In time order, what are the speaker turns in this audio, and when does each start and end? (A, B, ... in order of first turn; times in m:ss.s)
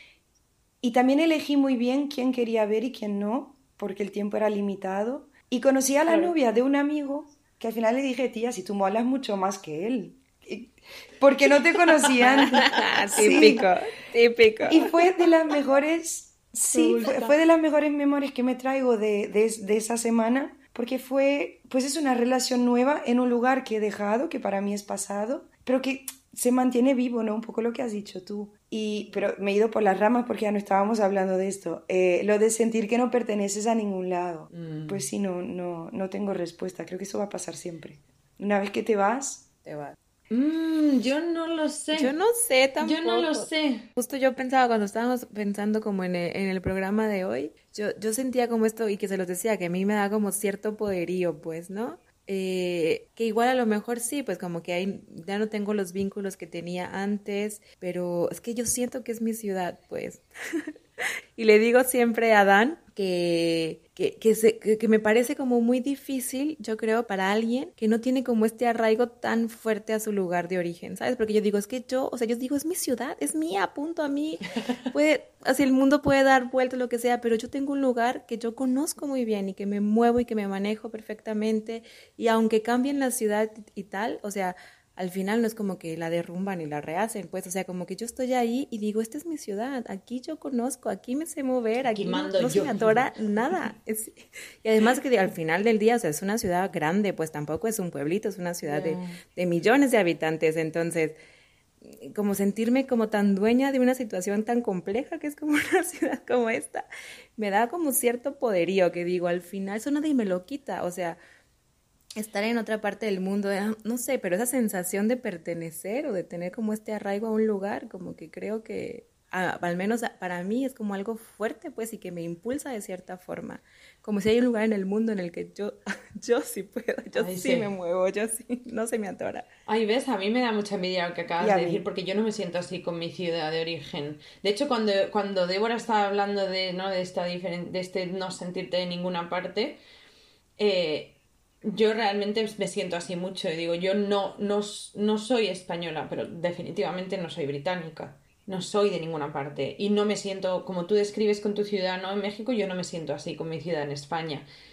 0:00.8-0:13.6 A
0:06.1-0:06.3 B
0:12.2-0:14.9 C
0:14.6-0:39.4 A
0:16.7-0:17.3 B
0:34.5-0:35.0 B
0:39.6-0:40.0 C
0:40.3-0:42.2 B
0:41.9-1:41.2 C
0:42.8-0:43.8 B
1:31.8-1:33.5 B
1:38.6-1:39.2 B
1:41.8-1:51.2 C
1:52.2-2:09.4 C
2:07.1-2:07.7 B
2:09.7-2:19.8 B
2:11.4-2:11.8 A
2:20.6-2:34.5 B